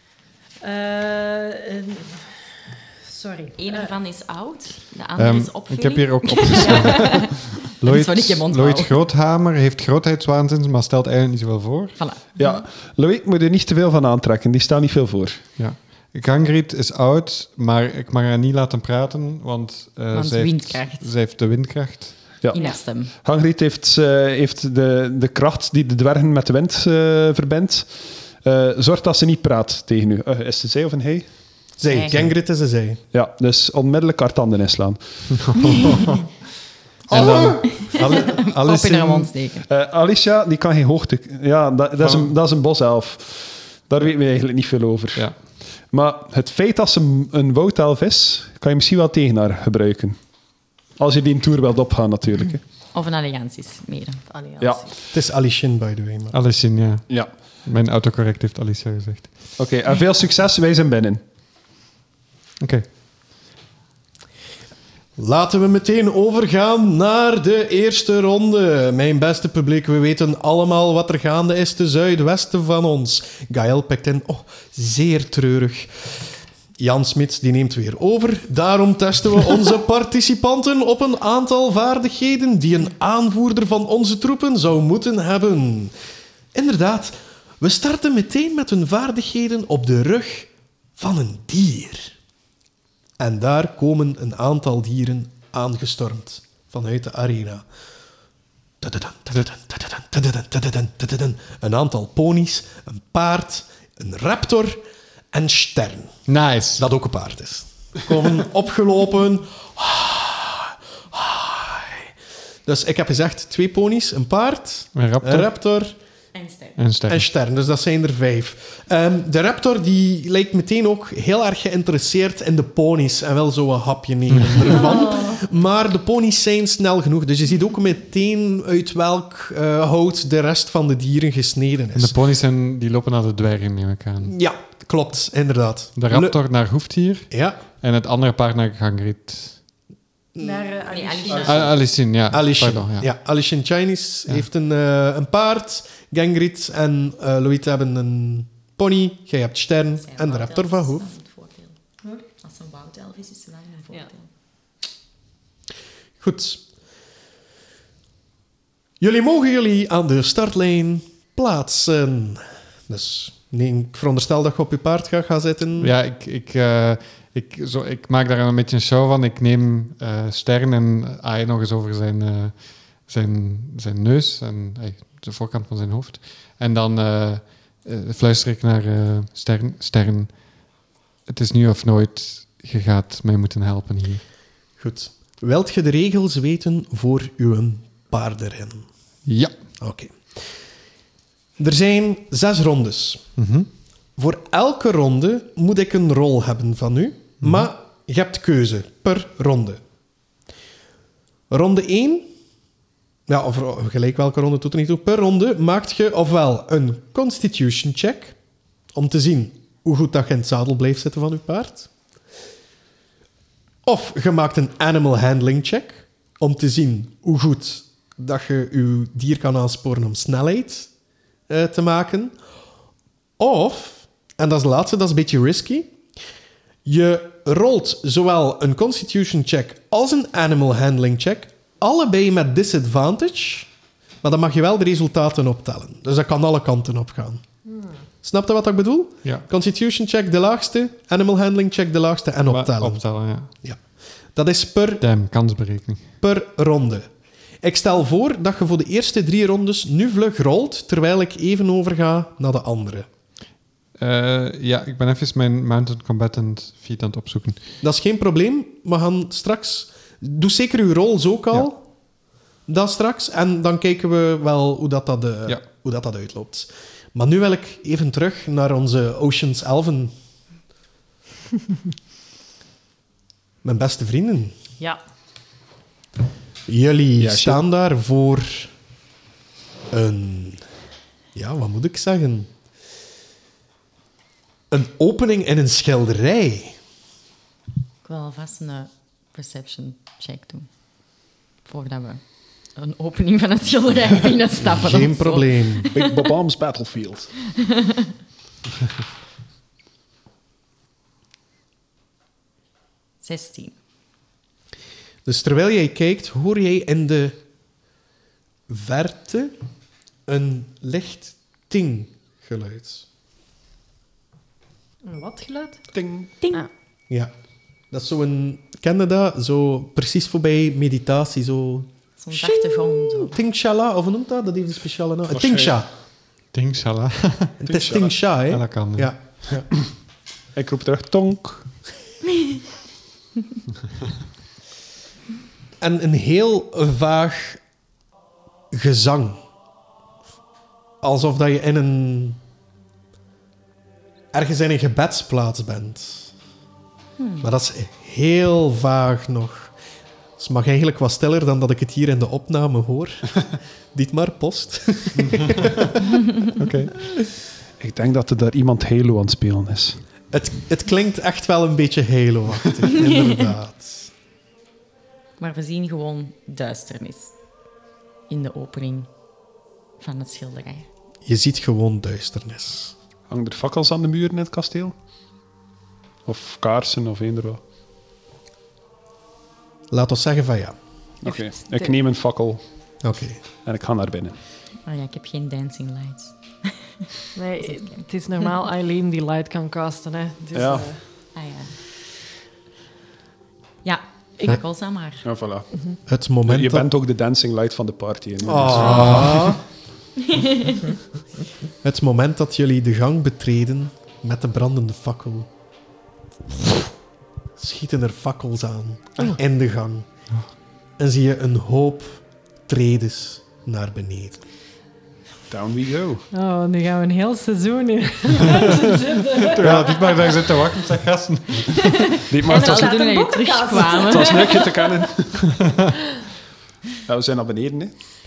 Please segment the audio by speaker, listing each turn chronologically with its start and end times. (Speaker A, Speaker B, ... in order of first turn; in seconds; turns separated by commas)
Speaker A: 0.6-3.9, Speaker B: 3.6-9.0, Speaker C: 5.2-12.0, Speaker A: 6.6-7.2, Speaker B: 12.0-12.6, Speaker D: 12.4-15.4, Speaker C: 15.6-22.2, Speaker B: 20.1-21.1, Speaker D: 22.4-31.3, Speaker B: 22.5-23.1, Speaker E: 31.8-33.0, Speaker B: 31.9-32.2, Speaker D: 33.1-35.8, Speaker C: 35.4-36.2, Speaker E: 37.1-39.3, Speaker C: 37.1-37.6, Speaker B: 37.2-39.7, Speaker D: 39.7-50.2, Speaker C: 42.0-42.3, Speaker D: 51.0-52.6, Speaker B: 52.9-54.2, Speaker A: 54.3-54.9, Speaker E: 55.1-56.4, Speaker C: 56.3-59.3, Speaker D: 59.6-61.2, Speaker C: 62.6-62.9, Speaker E: 65.2-76.1, Speaker E: 76.8-85.9, Speaker E: 86.5-92.2, Speaker E: 93.2-97.7, Speaker E: 98.8-104.8, Speaker E: 105.3-106.2, Speaker C: 106.3-106.9, Speaker E: 106.8-112.1, Speaker E: 112.7-116.0, Speaker C: 114.9-115.5, Speaker B: 116.3-116.8, Speaker C: 116.8-117.3, Speaker E: 117.1-132.1, Speaker C: 124.3-124.7, Speaker A: 124.7-125.4, Speaker C: 131.9-134.3, Speaker E: 134.2-136.4, Speaker C: 136.0-139.6, Speaker E: 137.3-137.6, Speaker E: 140.3-140.8, Speaker A: 140.4-141.8, Speaker B: 140.9-141.8, Speaker C: 141.4-143.1, Speaker E: 142.3-151.1, Speaker B: 150.0-151.8, Speaker B: 152.4-154.3, Speaker E: 156.2-156.6, Speaker E: 159.0-165.9, Speaker C: 165.8-180.4, Speaker C: 181.3-184.2, Speaker E: 184.8-188.9, Speaker C: 189.3-189.6, Speaker E: 189.8-190.5, Speaker E: 191.6-193.2, Speaker C: 193.4-193.7, Speaker E: 194.2-199.8, Speaker C: 197.4-197.7, Speaker E: 201.5-202.3, Speaker E: 203.3-208.4, Speaker E: 208.9-211.9, Speaker E: 213.8-220.9, Speaker E: 221.5-222.3, Speaker E: 223.4-225.9, Speaker E: 226.8-233.7, Speaker E: 234.2-237.4, Speaker E: 238.2-243.0, Speaker C: 242.5-243.5, Speaker E: 244.3-245.1, Speaker C: 245.0-246.1, Speaker E: 246.2-247.1, Speaker E: 247.6-253.1, Speaker C: 254.0-257.6, Speaker E: 257.8-261.8, Speaker E: 262.7-270.1, Speaker E: 273.6-274.6, Speaker E: 276.7-278.7, Speaker D: 277.2-277.6, Speaker E: 279.9-280.6, Speaker E: 281.4-282.5, Speaker E: 284.7-286.8, Speaker B: 288.0-290.7, Speaker B: 291.6-296.3, Speaker E: 294.6-295.9, Speaker D: 295.9-297.3, Speaker B: 297.5-298.1, Speaker B: 303.2-303.7, Speaker E: 305.2-307.4, Speaker E: 308.7-309.6, Speaker E: 310.3-313.1, Speaker A: 315.0-315.9, Speaker D: 315.9-316.4, Speaker E: 317.9-321.9, Speaker B: 322.2-323.4, Speaker A: 322.5-322.8, Speaker E: 323.3-325.9, Speaker D: 325.3-325.8, Speaker C: 326.5-327.7, Speaker E: 327.6-329.7, Speaker D: 327.6-328.1, Speaker C: 328.5-329.1, Speaker D: 330.5-331.7, Speaker E: 335.8-337.6, Speaker E: 338.7-339.4, Speaker E: 341.0-342.4, Speaker E: 344.3-346.3, Speaker B: 347.2-347.5, Speaker E: 347.4-349.7, Speaker E: 350.4-356.0, Speaker C: 355.2-355.7, Speaker C: 356.6-356.9, Speaker D: 356.6-356.9, Speaker D: 357.8-360.0, Speaker E: 360.3-364.1, Speaker B: 365.4-367.4, Speaker B: 368.3-369.1, Speaker B: 370.0-370.9, Speaker E: 371.3-372.9, Speaker D: 373.3-374.9, Speaker D: 376.3-377.6, Speaker E: 379.9-380.8, Speaker D: 381.2-382.6, Speaker E: 383.0-383.4, Speaker D: 383.6-384.4, Speaker B: 384.9-387.1, Speaker A: 387.4-391.0, Speaker B: 387.6-388.0, Speaker D: 390.6-390.9, Speaker B: 391.4-391.8, Speaker B: 393.8-395.2, Speaker D: 395.2-395.7, Speaker E: 396.1-396.9, Speaker D: 396.5-399.5, Speaker E: 398.4-399.6, Speaker A: 398.8-399.2, Speaker B: 400.3-400.8, Speaker E: 401.8-405.5, Speaker E: 407.6-410.1, Speaker E: 411.0-414.4, Speaker D: 415.5-416.3, Speaker A: 416.3-420.0, Speaker C: 419.4-422.1, Speaker D: 419.6-419.9, Speaker A: 422.1-425.1, Speaker D: 422.3-423.0, Speaker B: 422.4-424.6, Speaker D: 424.1-425.5, Speaker D: 427.1-427.9